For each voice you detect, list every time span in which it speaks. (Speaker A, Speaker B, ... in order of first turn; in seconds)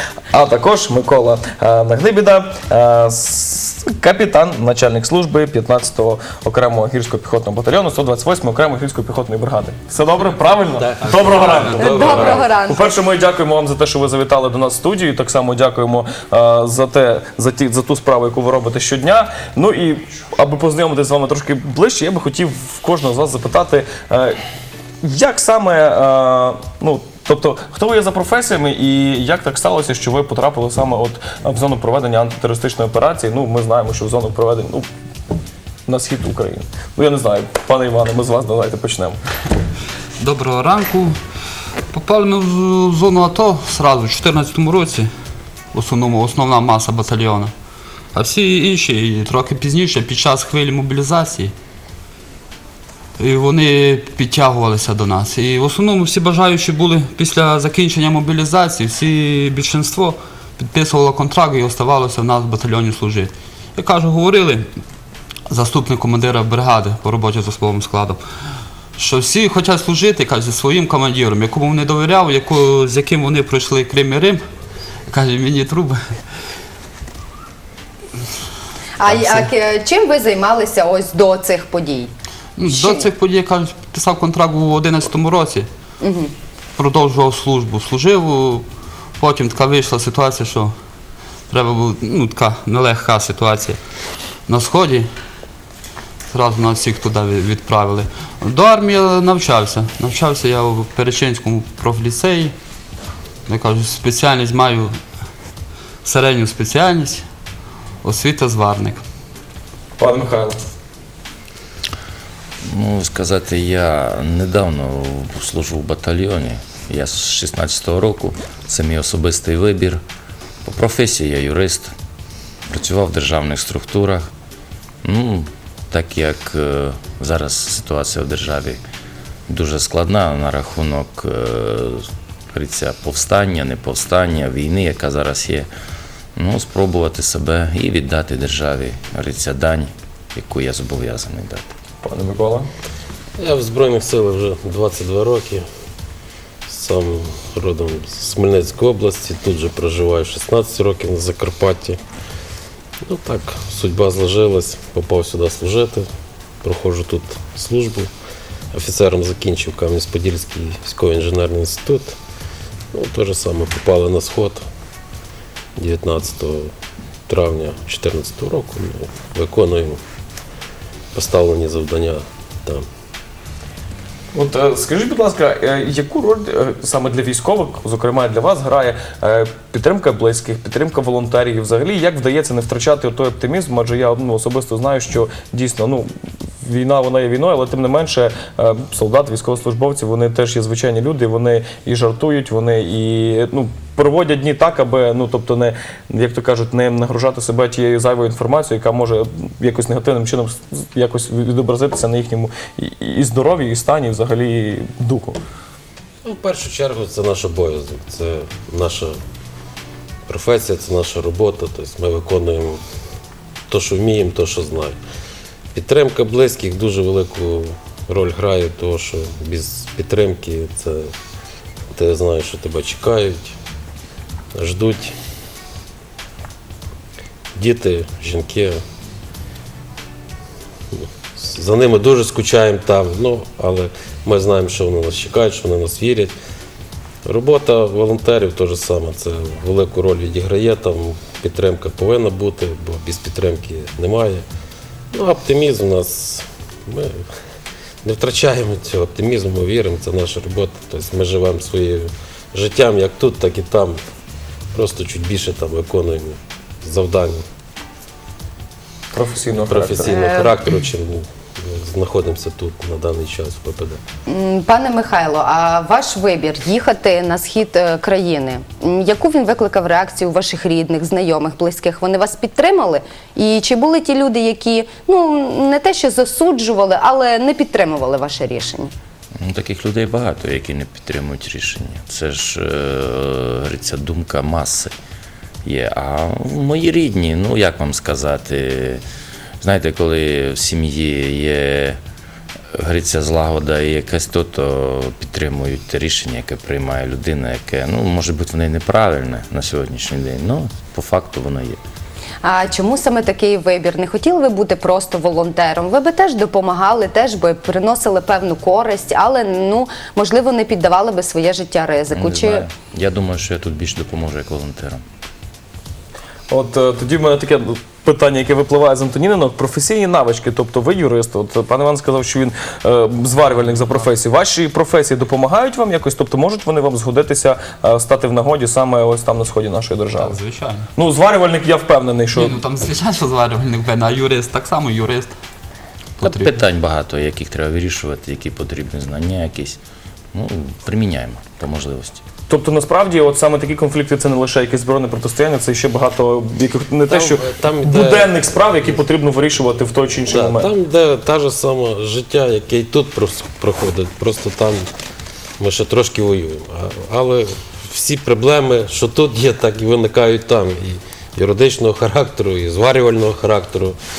Speaker A: 0.3-24.4, 25.0-34.9, 35.9-39.2, 110.0-110.5, 142.0-142.7, 174.3-186.1, 186.6-205.4, 259.1-260.1, 316.5-330.4, 330.9-332.6, 342.5-350.7
Speaker B: 10.7-12.4, 143.4-145.6, 146.7-152.0, 153.1-156.1, 156.6-158.1, 158.7-162.2, 162.9-164.6, 165.8-166.7, 167.3-170.0, 171.1-172.8, 206.2-209.2, 210.3-212.8, 213.7-215.0, 215.7-221.1, 221.9-223.6, 224.5-225.2, 227.6-228.8, 230.9-236.3, 237.2-244.4, 245.1-247.3, 248.0-254.0, 254.7-257.4, 259.6-264.0, 347.1-349.0, 350.2-354.8, 355.6-364.0
Speaker C: 11.8-12.9, 79.0-82.1, 82.7-83.1, 86.0-86.3, 260.0-260.5, 264.3-278.9, 302.4-312.6
Speaker D: 40.2-41.2, 41.9-45.1, 45.7-47.5, 48.1-51.5, 53.2-64.7, 65.5-68.2, 69.0-74.4, 75.1-76.0, 79.1-79.4, 82.6-85.7, 86.8-88.7, 89.2-90.7, 91.5-93.8, 94.5-95.1, 96.3-102.5, 103.5-104.9, 106.0-107.2, 108.0-109.0, 323.5-324.0, 330.1-330.9, 332.3-335.3, 336.2-336.5
Speaker E: 112.7-120.0, 120.6-121.9, 122.7-124.2, 125.0-128.8, 129.5-135.7, 136.3-141.7, 279.4-284.9, 285.6-289.0, 289.6-292.0, 292.8-301.8, 312.1-315.0, 336.2-339.8, 340.3-342.2